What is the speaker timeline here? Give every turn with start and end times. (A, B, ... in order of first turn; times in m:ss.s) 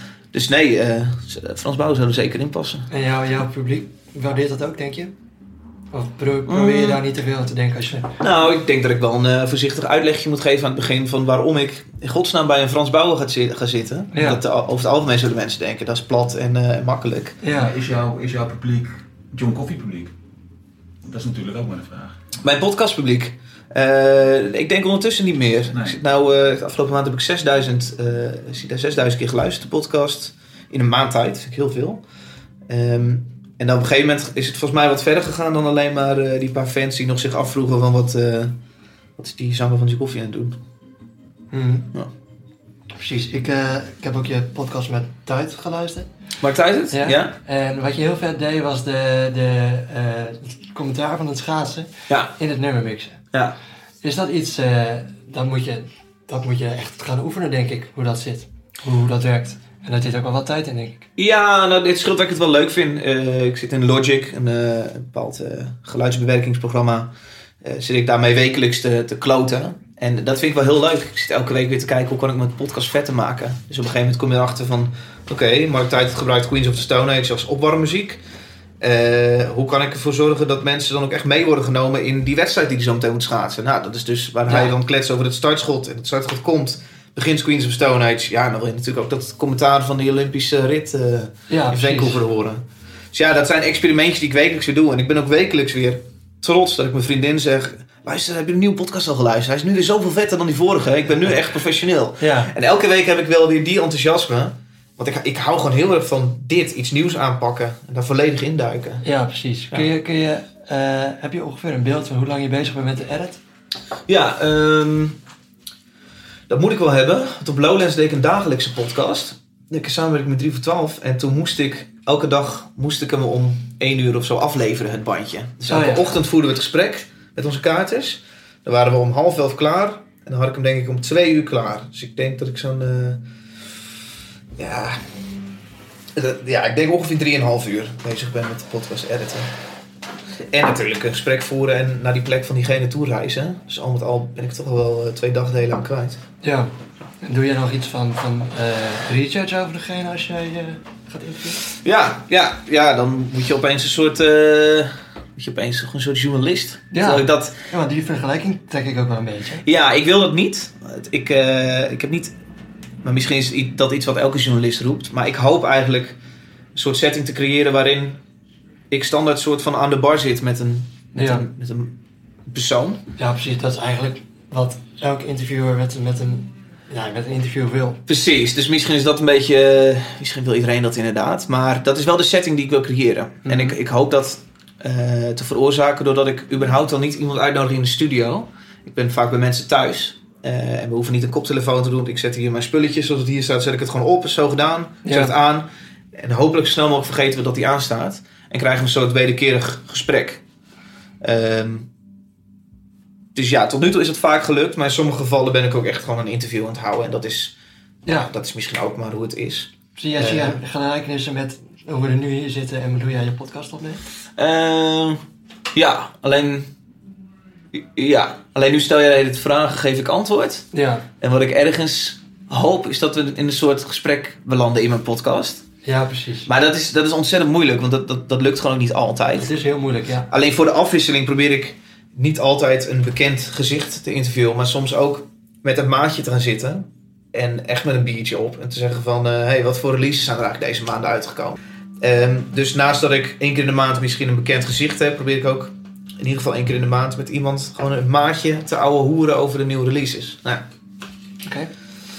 0:00.3-0:02.9 A
0:02.9-0:05.1 B
0:05.9-0:08.2 B
0:06.5-0:07.0 A
0:08.2-0:17.4 A
0:14.1-0:14.4 B
0:17.4-0:17.7 B
0:17.5-0:20.1 C
0:21.0-0:22.1 C
0:22.4-0:32.0 A
0:25.7-0:26.0 C
0:32.7-0:38.6 A
0:39.2-0:40.6 A
0:41.5-0:42.1 A
0:42.9-0:46.1 B
0:46.4-0:47.3 A
0:46.9-0:53.2 B
0:52.1-0:52.3 A
0:54.0-1:01.1 B
1:01.2-1:07.1 A
1:07.6-1:18.2 A
1:18.8-1:49.0 A
1:24.5-1:24.7 B
1:31.5-1:32.2 B
1:42.2-1:42.5 B
1:49.0-1:53.4 B
1:54.1-1:55.2 A
1:56.5-2:13.2 A
2:05.7-2:06.0 B
2:14.6-2:15.0 A
2:16.1-2:19.5 A
2:20.4-2:26.2 A
2:26.4-2:31.6 B
2:31.6-2:37.6 A
2:36.9-2:39.6 B
2:39.6-2:42.3 A
2:43.0-2:46.2 A
2:46.7-2:48.2 A
2:48.9-2:52.0 A
2:51.1-2:51.4 B
2:52.5-2:53.0 A
2:53.2-2:58.0 B
2:58.1-3:20.4 A
3:03.4-3:03.8 B
3:15.0-3:15.3 B
3:21.2-3:21.9 A
3:23.3-3:27.5 A
3:28.0-3:28.3 B
3:28.2-3:30.6 A
3:30.0-3:34.0 B
3:34.4-3:35.2 A
3:35.7-3:36.7 A
3:37.7-3:40.7 A
3:40.7-3:41.0 B
3:41.2-3:45.6 A
3:45.8-3:46.5 B
3:46.4-3:49.5 A
3:49.4-3:50.3 B
3:50.3-4:10.6 A
4:11.4-4:11.7 B